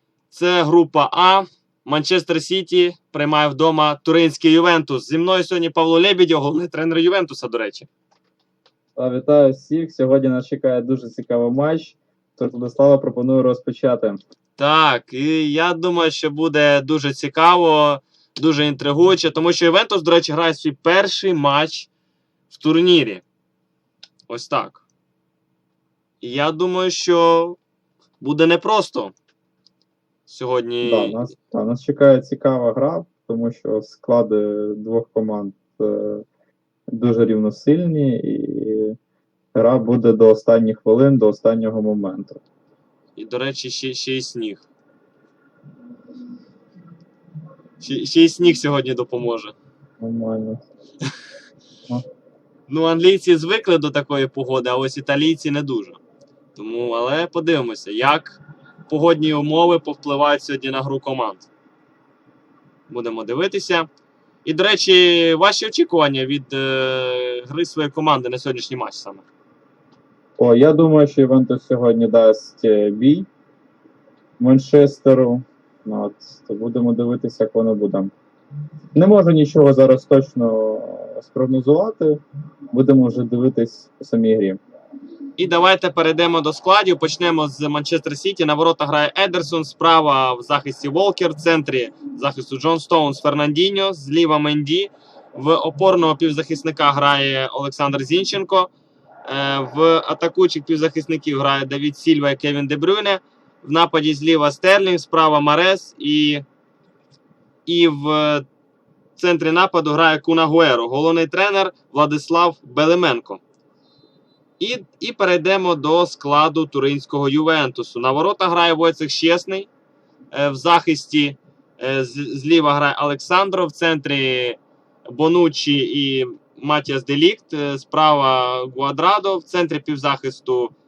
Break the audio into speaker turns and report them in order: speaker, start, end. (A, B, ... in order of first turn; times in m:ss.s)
0:00.3-0:07.9 A
0:09.0-0:14.2 B
0:14.6-0:21.9 A
0:22.5-0:23.2 A
0:24.3-0:24.8 A
0:26.2-0:27.6 A
0:28.2-0:29.1 A
0:30.3-0:31.2 A
0:30.8-0:36.2 B
0:36.9-0:39.0 B
0:39.6-0:42.4 B
0:43.2-0:44.7 A
0:47.8-0:49.6 A
0:50.0-0:50.6 B
0:52.7-0:56.0 A
0:56.6-1:01.5 A
1:02.9-1:03.9 A
1:04.4-1:09.2 A
1:10.4-1:13.3 B
1:14.4-1:18.1 B
1:19.0-1:24.6 B
1:25.4-1:38.7 A
1:39.3-1:46.4 A
1:47.7-1:48.4 A
1:49.2-1:53.4 A
1:54.6-1:59.7 A
2:00.3-2:10.7 A